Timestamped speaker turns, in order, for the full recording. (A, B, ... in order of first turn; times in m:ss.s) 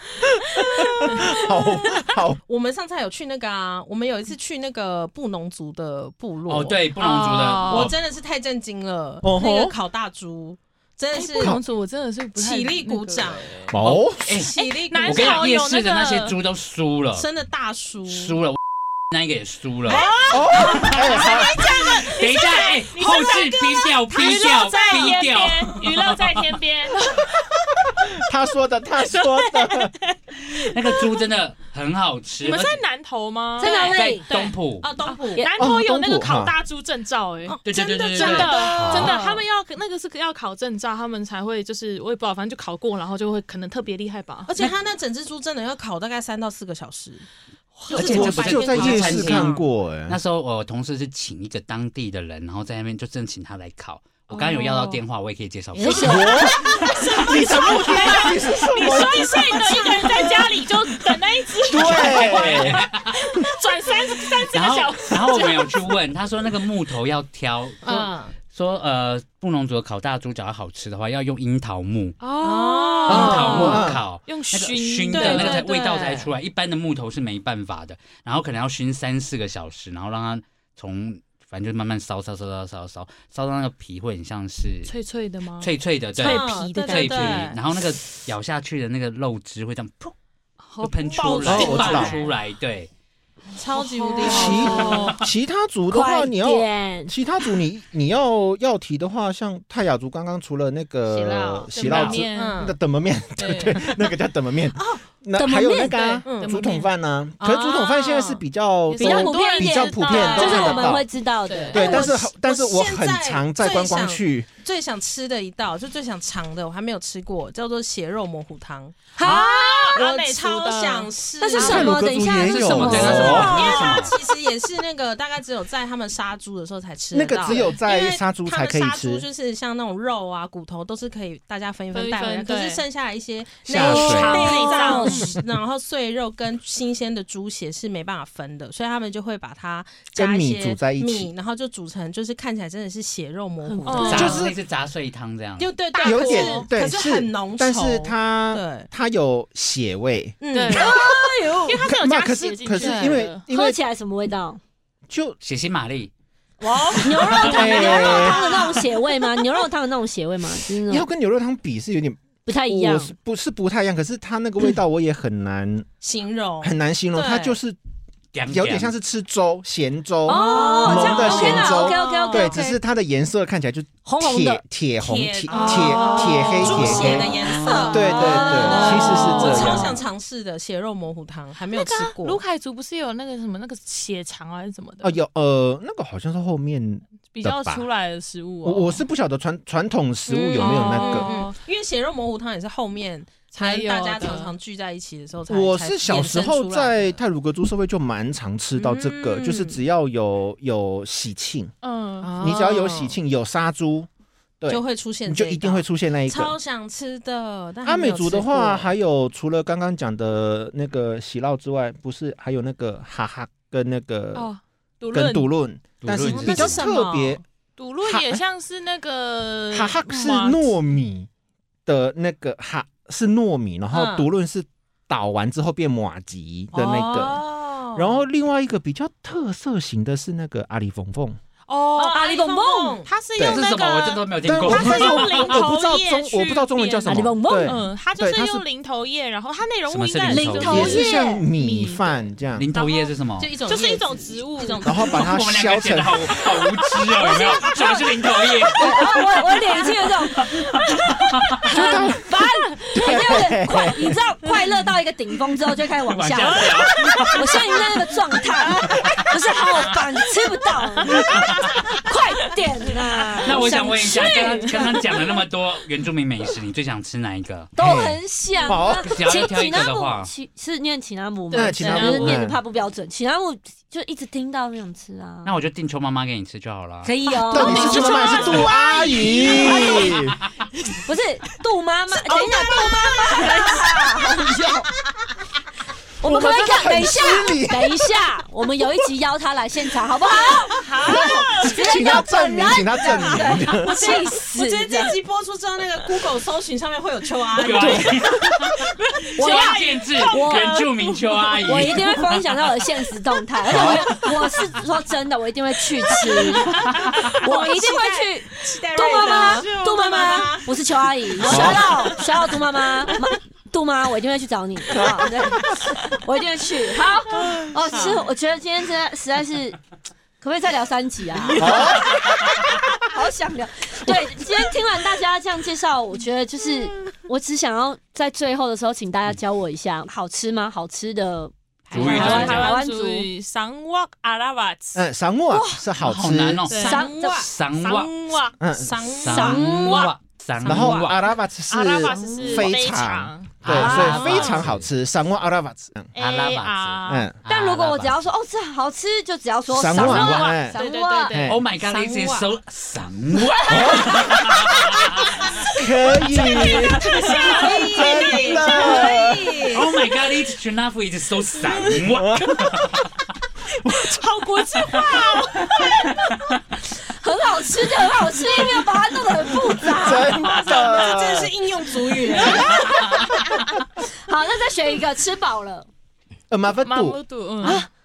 0:00.4-0:02.4 A
0:01.0-0:01.4 B
0:02.5-0:06.8 C
0:06.5-0:07.9 D
0:07.0-0:07.9 B
0:07.7-0:11.6 C
0:09.2-0:09.8 A
0:11.1-0:13.7 B
0:12.4-0:13.7 C
0:13.7-0:14.5 A
0:13.8-0:17.3 D
0:14.4-0:15.5 C
0:14.5-0:16.4 B
0:17.2-0:18.4 C
0:18.1-0:18.6 D
0:19.1-0:20.0 D
0:19.9-0:28.1 B
0:20.3-0:21.6 A
0:20.6-0:26.4 D
0:24.7-0:25.2 C
0:27.9-0:29.9 A
0:29.0-0:31.2 B
0:30.4-0:32.8 D
0:32.4-0:34.6 B
0:33.6-0:34.3 E
0:33.6-0:35.5 C
0:33.7-0:35.0 D
0:35.1-0:44.7 B
0:35.6-0:36.5 A
0:37.5-0:39.4 C
0:37.6-0:39.2 D
0:44.5-0:47.3 C
0:47.8-0:49.5 B
0:47.9-0:49.4 C
0:47.9-0:56.3 D
0:47.9-0:50.2 A
0:54.3-0:55.0 B
0:55.8-0:56.6 E
0:56.0-1:05.9 B
0:56.0-1:00.3 A
0:56.8-0:58.3 C
0:58.8-1:00.1 C
1:01.7-1:02.9 A
1:01.7-1:03.2 D
1:04.5-1:12.2 D
1:07.8-1:08.3 C
1:12.2-1:15.7 B
1:12.4-1:13.9 C
1:13.1-1:14.0 A
1:13.1-1:24.9 D
1:15.1-1:16.3 C
1:24.8-1:27.5 B
1:25.6-1:30.1 D
1:26.2-1:27.6 C
1:30.6-1:32.1 B
1:30.8-1:32.9 D
1:31.1-1:32.4 C
1:31.4-1:32.2 A
1:33.5-1:35.1 C
1:33.8-1:35.2 B
1:34.2-1:51.1 A
1:35.9-1:37.1 E
1:41.1-1:42.7 C
1:41.7-1:42.7 B
1:41.8-1:42.2 D
1:43.4-1:44.0 B
1:45.3-1:46.3 E
1:46.2-1:46.8 C
1:46.3-1:46.9 B
1:47.4-1:48.4 C
1:49.0-1:52.1 E
1:49.0-1:50.9 C
1:49.0-1:52.1 B
1:51.7-1:54.5 A
1:51.7-1:59.4 C
1:59.2-2:00.0 E
1:59.2-2:01.1 B
1:59.9-2:02.0 C
2:01.4-2:03.6 E
2:01.6-2:03.7 A
2:02.4-2:04.2 D
2:02.8-2:24.4 C
2:03.4-2:04.1 B
2:07.1-2:09.3 A
2:11.9-2:12.8 B
2:13.7-2:14.7 A
2:13.7-2:15.4 B
2:14.4-2:15.3 E
2:20.1-2:21.3 A
2:23.6-2:24.4 B
2:24.0-2:25.7 D
2:24.1-2:24.6 A
2:25.6-2:28.9 C
2:25.9-2:26.7 B
2:26.0-2:30.4 A
2:30.4-2:31.0 C
2:30.5-2:31.1 B
2:30.7-2:31.9 E
2:31.6-2:33.4 B
2:31.8-2:33.8 A
2:32.8-2:33.2 C
2:33.5-2:34.6 E
2:35.1-2:35.4 A
2:35.4-2:36.1 D
2:36.6-2:38.9 B
2:36.9-2:41.1 E
2:37.4-2:38.5 A
2:37.6-2:39.0 C
2:40.9-2:45.9 A
2:42.4-2:43.1 E
2:46.0-2:47.6 C
2:46.6-2:47.8 A
2:48.3-2:48.9 D
2:48.5-3:00.0 A
2:50.3-2:52.6 C
2:50.3-2:52.8 E
2:54.0-2:54.6 E
2:55.0-3:02.4 C
2:55.5-3:00.0 B
3:01.7-3:05.2 B
3:05.0-3:07.9 A
3:07.3-3:09.0 B
3:08.6-3:11.3 A
3:10.3-3:17.2 C
3:10.6-3:11.6 B
3:13.5-3:14.6 B
3:15.5-3:21.7 A
3:18.8-3:19.8 C
3:21.8-3:22.4 B
3:22.2-3:23.2 C
3:22.3-3:24.1 A
3:24.6-3:26.6 A
3:24.7-3:28.9 C
3:27.8-3:34.5 A
3:34.4-3:35.5 B
3:35.1-3:37.4 A
3:36.0-3:36.9 D
3:36.2-3:37.4 C
3:37.8-3:40.7 B
3:38.0-3:38.4 A
3:39.7-3:41.3 A
3:41.9-3:47.4 A
3:43.9-3:44.3 C
3:46.7-3:48.2 C
3:47.9-3:51.4 A
3:51.7-4:05.2 B
3:52.0-3:55.0 C
3:52.1-3:53.0 E
3:53.4-3:55.6 D
3:54.4-3:58.6 A
3:57.1-3:57.8 E
3:59.9-4:01.0 D
4:00.3-4:01.4 E
4:00.7-4:02.7 A
4:02.6-4:03.5 D
4:03.4-4:05.2 C
4:04.8-4:06.3 A
4:05.1-4:09.4 D
4:07.2-4:08.0 E
4:07.2-4:08.8 B
4:08.8-4:10.8 E
4:10.4-4:11.5 D
4:11.6-4:21.3 E
4:11.7-4:12.3 A
4:12.9-4:14.2 A
4:16.1-4:17.6 D
4:16.7-4:17.8 B
4:18.9-4:19.2 D
4:19.7-4:20.1 B
4:21.0-4:22.0 B
4:22.0-4:25.1 E
4:23.4-4:25.1 B
4:23.4-4:27.7 D
4:27.8-4:35.5 E
4:27.8-4:29.1 A
4:29.0-4:30.3 D
4:31.5-4:32.6 A
4:31.6-4:32.3 C
4:35.4-4:37.1 D
4:37.0-4:40.2 E
4:37.5-4:40.4 A
4:37.6-4:38.7 B
4:37.6-4:38.7 D
4:41.0-4:44.9 E
4:42.3-4:44.0 C
4:46.2-4:55.2 E
4:46.2-4:48.0 A
4:50.5-4:52.3 B
4:51.0-4:53.9 A
4:53.0-4:54.1 B
4:53.2-4:58.3 C
4:57.6-5:02.3 D
4:57.7-4:58.3 A
4:59.1-5:02.9 B
4:59.4-5:00.8 E
5:01.7-5:19.8 E
5:03.7-5:04.1 A
5:03.7-5:04.2 D
5:03.8-5:04.8 B
5:06.1-5:07.4 B
5:07.1-5:10.7 C
5:11.4-5:12.0 C
5:11.4-5:11.9 A
5:14.9-5:15.8 A
5:17.5-5:18.0 B
5:20.4-5:33.3 E
5:21.6-5:22.2 A
5:31.9-5:32.7 C
5:31.9-5:32.8 D
5:32.0-5:35.0 B
5:35.0-5:36.7 A
5:35.5-5:35.8 E
5:36.0-5:38.1 D
5:36.7-5:37.1 B
5:36.7-5:37.5 C
5:36.8-5:37.5 E
5:37.7-5:38.6 B
5:38.6-5:39.0 A
5:38.7-5:41.2 C
5:39.2-5:41.2 D
5:39.3-5:40.1 E
5:40.6-5:46.1 A
5:41.7-5:44.6 B
5:42.1-5:42.7 E
5:43.6-5:44.9 D
5:46.1-5:47.3 B
5:46.2-5:48.2 D
5:47.1-5:47.3 A
5:47.5-5:51.4 E
5:49.7-5:51.6 A
5:49.9-5:50.6 D
5:50.0-5:51.6 B
5:51.5-5:55.3 D
5:51.8-5:52.5 C
5:53.7-5:54.7 A
5:55.7-5:59.6 A
5:56.3-5:59.1 B
5:56.4-5:56.8 C
5:57.3-5:59.9 C
5:59.7-6:03.0 D
6:02.1-6:02.5 A
6:02.5-6:02.7 B
6:03.8-6:06.0 B
6:03.9-6:04.2 A
6:04.8-6:05.0 D
6:05.8-6:06.6 D
6:07.2-6:10.4 E
6:09.9-6:11.5 A
6:10.4-6:13.4 C
6:12.4-6:13.3 E
6:14.0-6:15.9 E
6:16.5-6:17.2 A
6:16.8-6:17.8 B
6:17.6-6:17.9 E